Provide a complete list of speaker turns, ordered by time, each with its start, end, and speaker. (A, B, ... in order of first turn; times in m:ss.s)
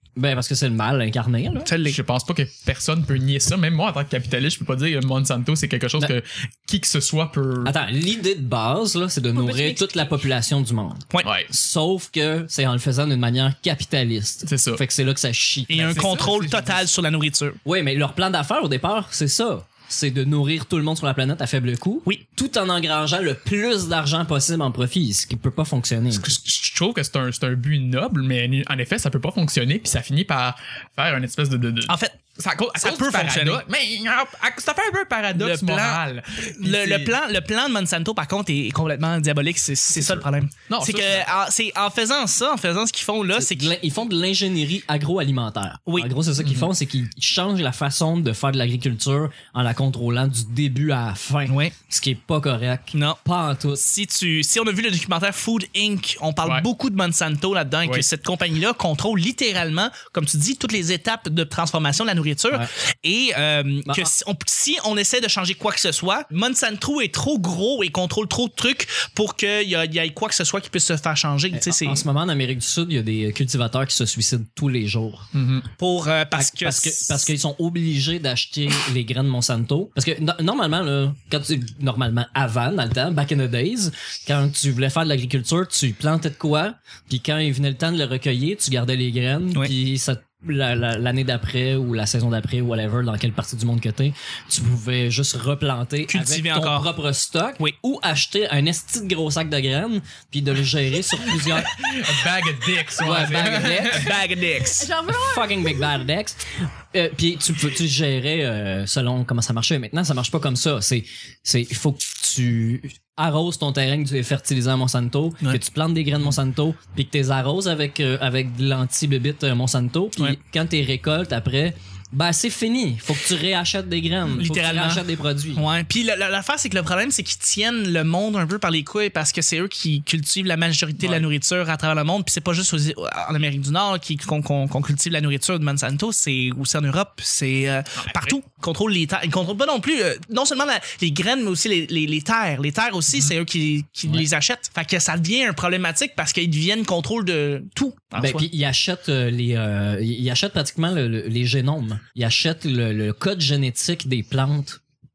0:00.2-0:01.7 A
0:01.6-0:02.0 B
0:01.8-0:07.7 C
0:07.6-0:16.3 A
0:09.3-0:10.0 D
0:11.2-0:11.5 C
0:14.4-0:14.8 C
0:15.7-0:17.6 B
0:15.8-0:16.9 C
0:17.6-0:26.4 A
0:26.1-0:37.2 C
0:31.9-0:32.2 B
0:32.8-0:33.6 B
0:35.3-0:43.7 B
0:40.0-0:41.3 C
0:43.3-0:53.8 A
0:46.4-0:46.7 C
0:51.5-0:51.7 B
0:52.9-0:53.2 B
0:53.8-1:12.0 B
1:03.9-1:04.1 A
1:11.5-1:15.3 A
1:15.3-1:15.7 C
1:15.8-1:17.3 B
1:16.4-1:42.0 A
1:36.1-1:36.9 B
1:41.4-1:44.2 C
1:43.0-1:44.2 A
1:43.8-1:44.9 B
1:44.6-1:46.0 D
1:45.1-2:05.7 A
2:04.3-2:28.5 B
2:11.0-2:11.3 C
2:18.0-2:18.4 C
2:28.2-2:34.8 A